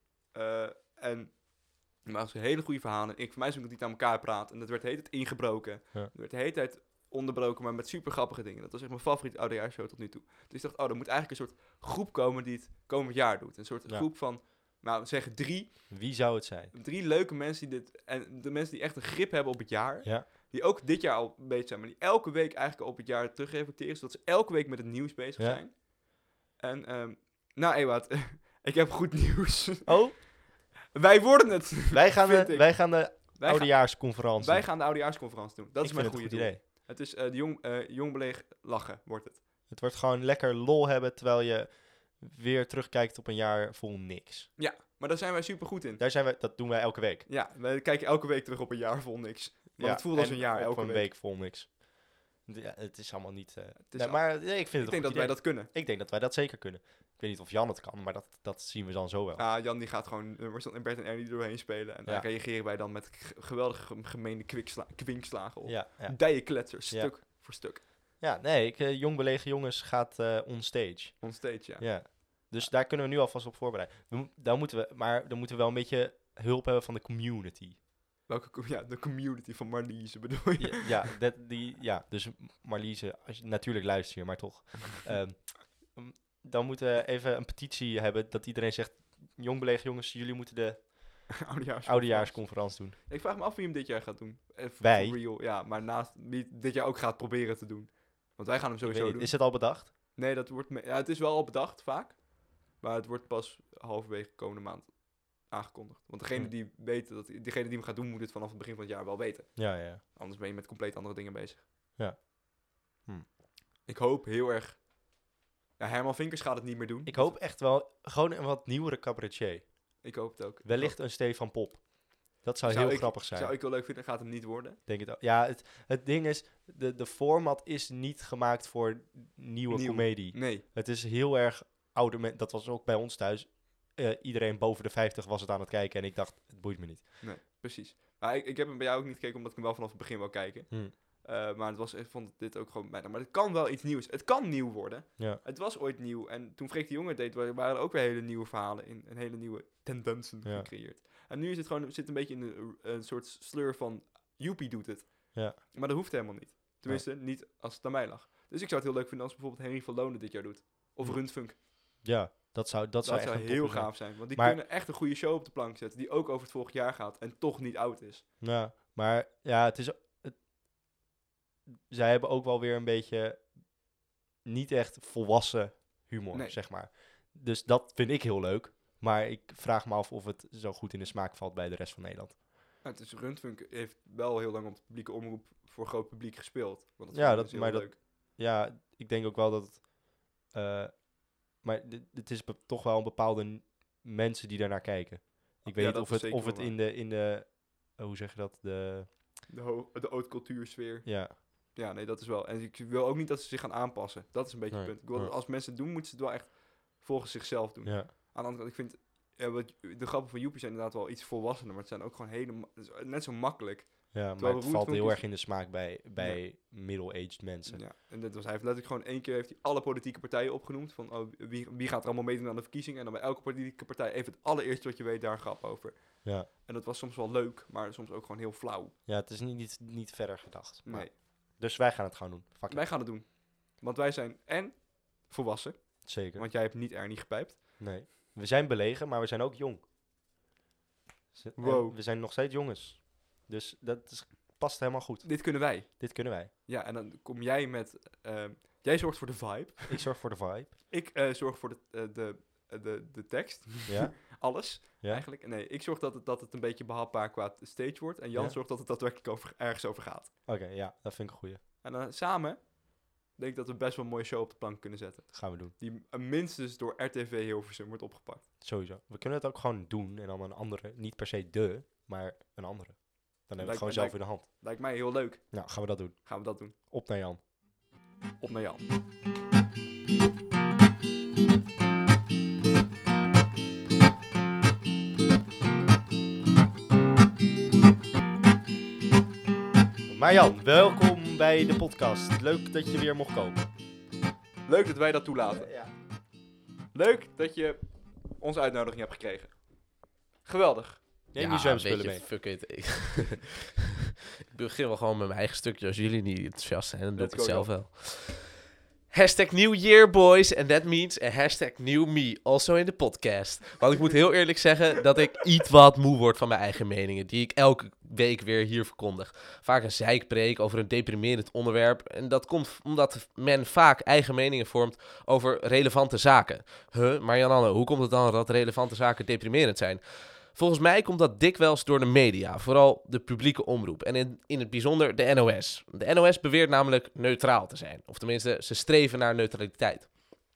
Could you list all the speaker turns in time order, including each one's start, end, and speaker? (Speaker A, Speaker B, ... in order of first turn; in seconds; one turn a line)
Speaker A: 0.3-15.9
Speaker B: 15.9-16.7
Speaker A: 16.7-30.2
Speaker B: 29.9-30.2
Speaker A: 30.9-39.4
Speaker B: 31.9-34.8
Speaker B: 35.8-36.6
Speaker B: 39.7-44.5
Speaker A: 44.6-46.0
Speaker B: 46.0-47.3
Speaker A: 47.3-51.1
Speaker B: 49.8-59.4
Speaker A: 53.8-55.7
Speaker A: 59.4-67.8
Speaker B: 65.6-67.2
Speaker B: 68.2-77.8
Speaker A: 71.2-72.7
Speaker A: 78.3-81.2
Speaker B: 80.6-93.0
Speaker A: 91.4-111.6
Speaker B: 94.8-95.2
Speaker B: 98.8-99.9
Speaker B: 109.5-110.0
Speaker B: 112.0-113.3
Speaker A: 113.8-114.9
Speaker A: 115.8-117.4
Speaker B: 117.0-120.1
Speaker A: 120.0-121.0
Speaker B: 120.6-123.5
Speaker A: 122.6-124.8
Speaker B: 124.9-137.2
Speaker A: 129.7-130.6
Speaker A: 137.2-161.6
Speaker B: 140.7-140.9
Speaker B: 150.4-150.7
Speaker B: 161.0-164.6
Speaker A: 163.0-168.3
Speaker B: 168.4-170.4
Speaker B: 171.7-173.7
Speaker B: 174.4-182.4
Speaker A: 182.8-188.0
Speaker B: 187.1-199.1
Speaker A: 195.7-196.7
Speaker A: 199.5-216.4
Speaker B: 201.0-201.3
Speaker B: 207.8-208.1
Speaker B: 214.1-217.8
Speaker A: 217.7-228.9
Speaker B: 226.2-226.5
Speaker B: 229.1-232.9
Speaker A: 230.8-231.1
Speaker A: 232.7-237.8
Speaker B: 236.0-236.5
Speaker B: 237.8-239.8
Speaker B: 241.3-246.5
Speaker A: 241.6-242.0
Speaker A: 245.2-250.0
Speaker B: 249.9-250.8
Speaker A: 250.9-260.3
Speaker B: 253.8-255.2
Speaker B: 258.3-258.6
Speaker B: 260.4-261.6
Speaker A: 261.8-262.7
Speaker A: 263.3-268.4
Speaker B: 265.3-265.7
Speaker B: 268.6-274.5
Speaker A: 273.6-276.7
Speaker B: 275.5-277.4
Speaker A: 278.4-278.8
Speaker B: 290.1-293.6
Speaker A: 294.6-295.7
Speaker B: 295.4-295.9
Speaker A: 296.9-299.7
Speaker A: 300.4-301.0
Speaker B: 301.3-302.2
Speaker C: 301.4-303.7
Speaker C: 304.5-308.6
Speaker A: 307.1-307.7
Speaker C: 309.1-330.0
Speaker C: 330.5-340.1